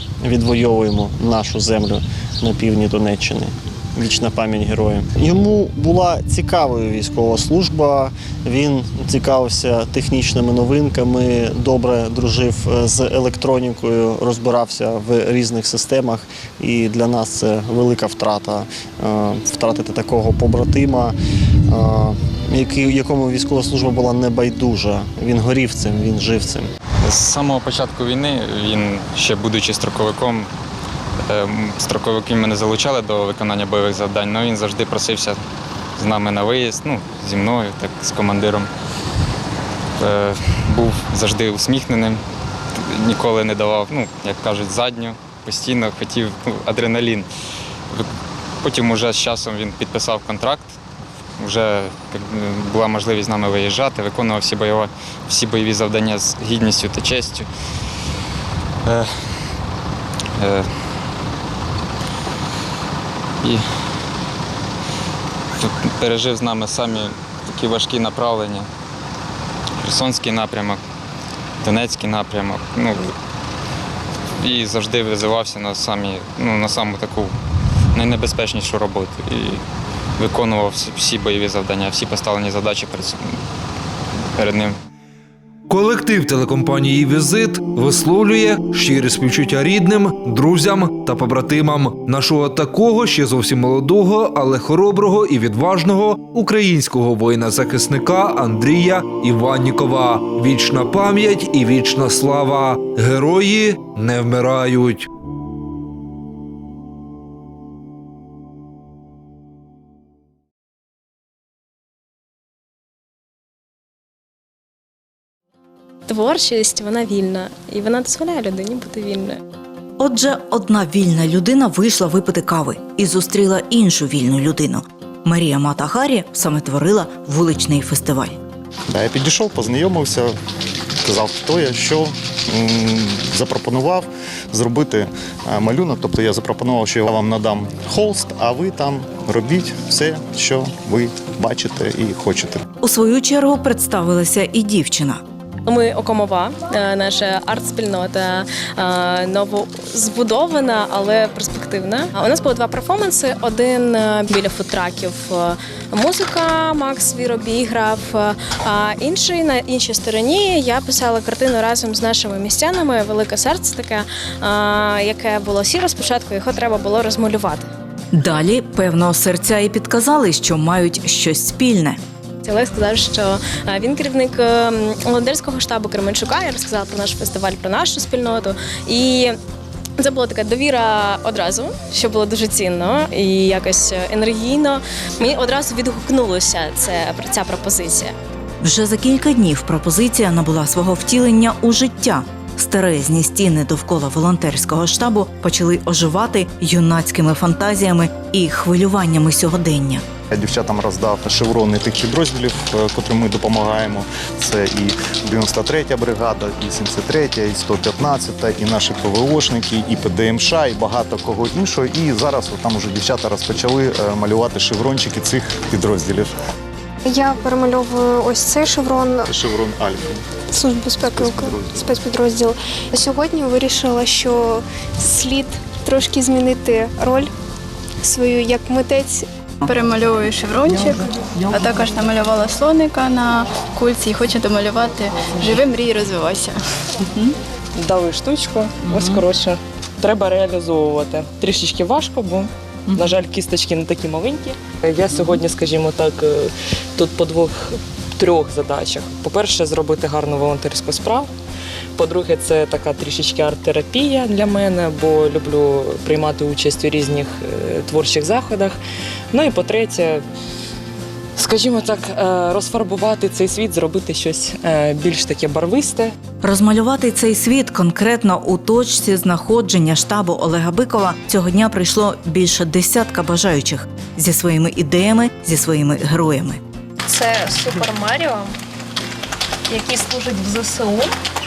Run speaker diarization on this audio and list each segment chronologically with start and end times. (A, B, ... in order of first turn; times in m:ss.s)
0:00.2-0:21.1 A
0:21.7-0:26.7 A
0:27.0-0:30.5 B
0:31.3-0:35.4 B
0:36.0-0:38.7 B
0:40.0-0:42.2 B
0:42.8-0:47.3 B
0:48.6-0:50.8 B
0:51.4-0:57.5 B
0:58.9-0:59.4 B
1:00.4-1:00.7 B
1:05.6-1:08.7 B
1:09.8-1:10.8 B
1:11.6-1:13.1 B
1:14.4-1:17.3 B
1:18.0-1:19.6 B
1:20.2-1:23.4 B
1:24.4-1:24.8 B
1:25.7-1:45.1 C
1:56.1-1:59.4 D
2:00.0-2:08.4 E
2:08.9-2:10.4 F
2:11.0-2:22.6 F
2:22.8-2:25.2 E
2:25.6-2:47.7 D
2:48.1-2:52.0 E
2:52.4-2:59.4 D
3:00.0-3:08.1 D
3:08.6-3:20.0 E
3:20.3-3:36.3 F
3:37.0-3:39.3 G
3:39.3-3:40.2 F
3:40.5-3:47.3 G
3:41.1-3:41.8 F
3:48.0-3:49.3 G
3:49.6-3:56.6 H
3:57.8-4:11.3 I
4:12.0-4:18.8 I
4:19.3-4:20.2 I
4:21.4-4:26.1 I
4:26.4-4:36.6 E
4:37.1-4:38.5 J
4:39.7-4:41.1 J